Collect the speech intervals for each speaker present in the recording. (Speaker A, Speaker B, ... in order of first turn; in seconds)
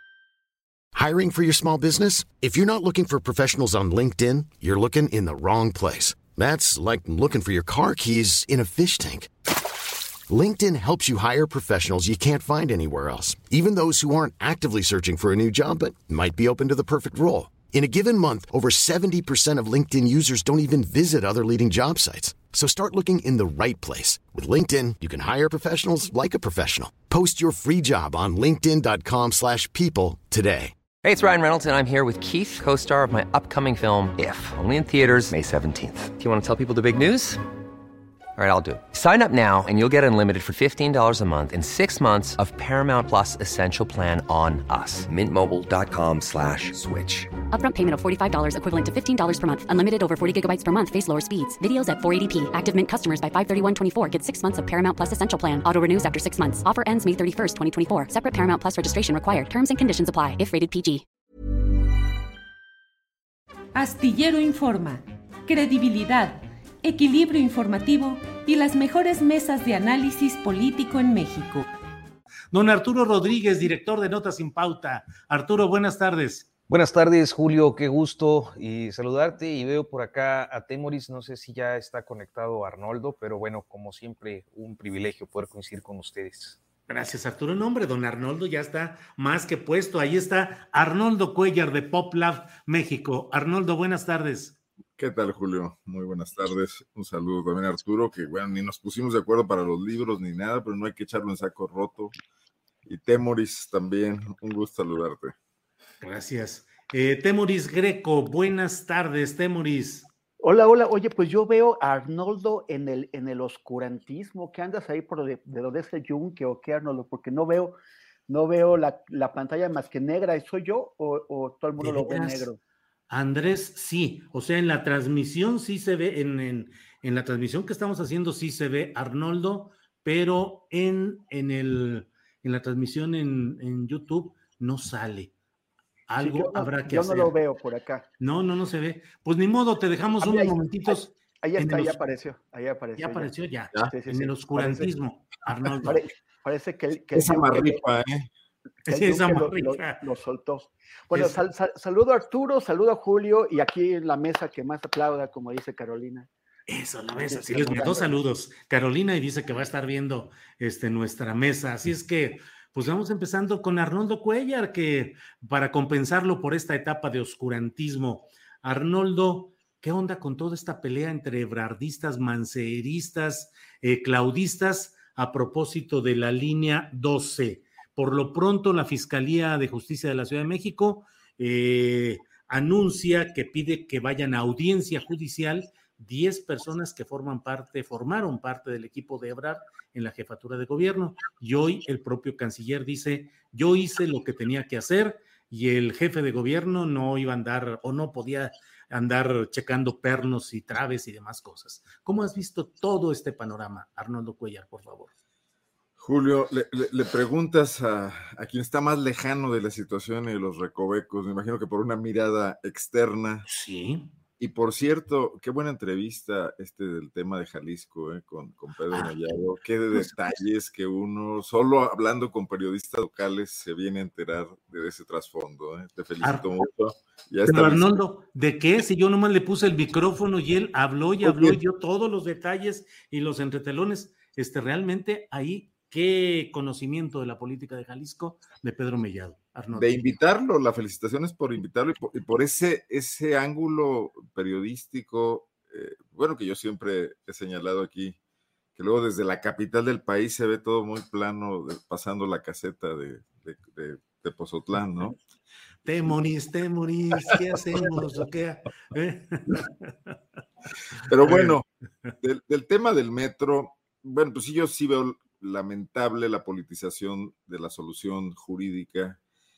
Speaker A: 0.9-9.3, 10.3-30.8
Speaker B: 31.0-37.4, 38.4-47.3
Speaker C: 47.5-61.0
Speaker D: 63.7-71.7
Speaker E: 72.5-76.5, 86.9-94.6, 106.0-110.1, 121.8-122.5, 123.1-135.3, 136.1-137.3, 138.2-142.0, 143.0-146.0, 148.9-150.0, 151.1-151.4, 156.7-205.1, 213.5-214.1, 227.5-240.1, 255.8-260.1, 261.2-261.6
Speaker F: 76.7-86.6
Speaker G: 95.0-102.1, 102.8-105.3, 147.1-148.3, 206.0-213.5, 214.4-228.0, 231.2-231.6, 239.7-248.2, 248.8-255.2, 261.0-261.6, 262.2-269.2
Speaker H: 110.4-117.8, 118.3-122.6, 136.2-138.1, 140.2-143.3, 143.9-144.9, 145.8-147.8, 148.9-156.3, 157.3-158.2